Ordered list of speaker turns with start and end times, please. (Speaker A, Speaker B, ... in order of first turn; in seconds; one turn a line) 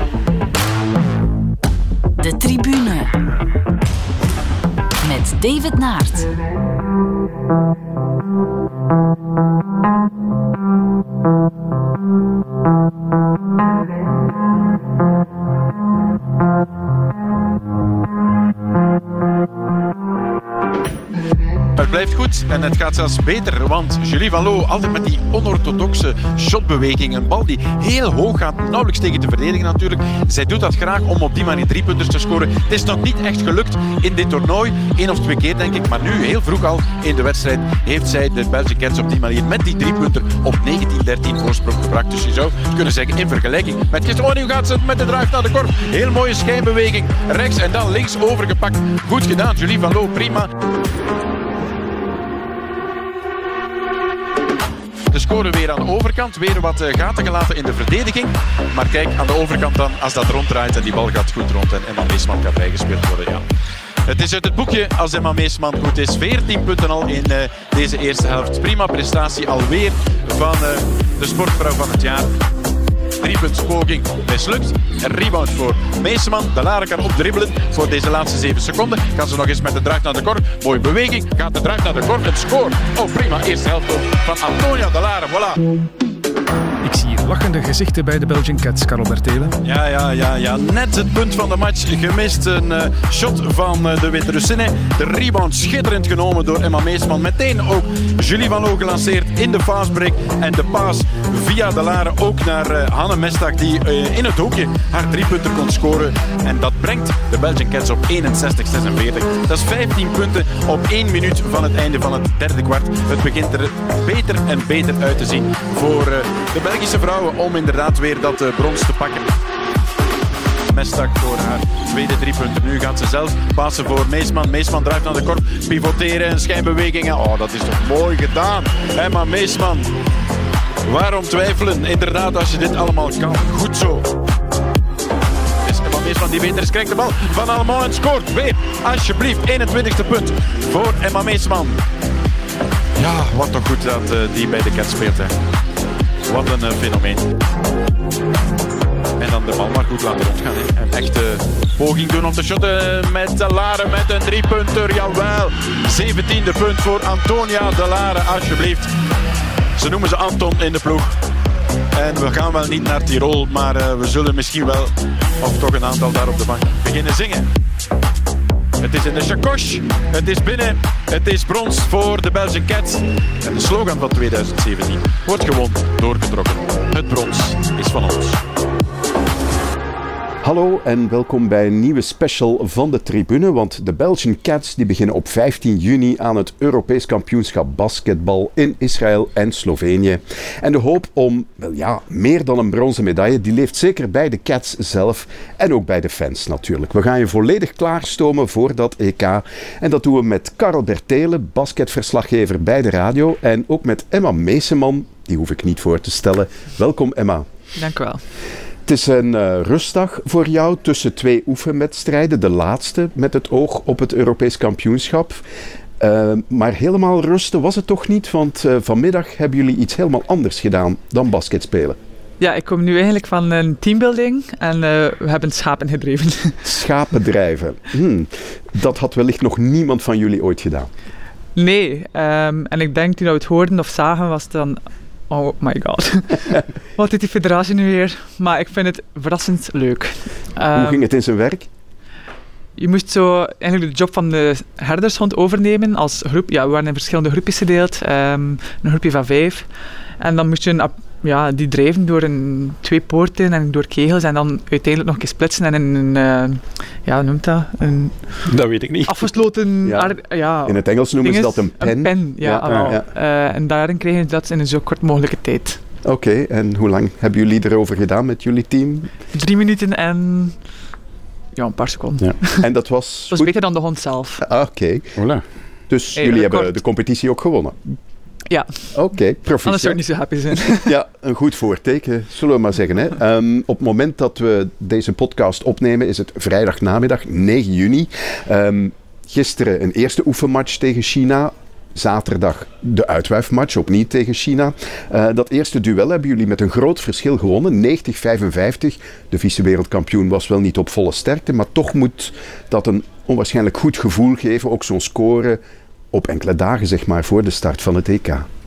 Speaker A: 2.2-3.2
Speaker A: 5.0-6.3
Speaker B: 21.8-50.5
Speaker B: 55.1-63.4
Speaker B: 64.1-72.3
Speaker B: 73.2-85.6
Speaker C: 86.8-89.6
Speaker B: 89.6-119.3
Speaker B: 120.7-129.9
Speaker B: 130.9-134.1
Speaker B: 135.7-141.8
Speaker B: 143.0-145.3
Speaker B: 146.3-147.3
Speaker B: 149.2-158.9
Speaker B: 159.8-161.1
Speaker B: 161.9-167.5
Speaker B: 168.8-178.4
Speaker D: 180.4-207.4
Speaker E: 207.8-208.2
Speaker D: 208.8-215.4
Speaker D: 216.0-222.0
Speaker E: 222.4-226.6
Speaker D: 226.6-230.9
Speaker E: 231.6-241.0
Speaker D: 240.7-241.7
Speaker E: 242.8-249.7
Speaker E: 250.2-258.2
Speaker B: 258.5-259.3
Speaker E: 259.1-265.8
Speaker D: 259.8-260.1
Speaker D: 260.6-263.0
Speaker B: 262.7-263.0
Speaker D: 266.0-269.1
Speaker E: 269.3-270.6
Speaker E: 271.6-272.6
Speaker D: 272.6-273.5
Speaker E: 273.3-274.4
Speaker D: 274.4-275.2
Speaker B: 275.2-275.4
Speaker D: 275.9-277.8
Speaker E: 276.1-276.8
Speaker E: 278.5-278.9
Speaker D: 278.9-280.0
Speaker E: 279.6-280.9
Speaker D: 280.7-305.6
Speaker D: 306.1-308.5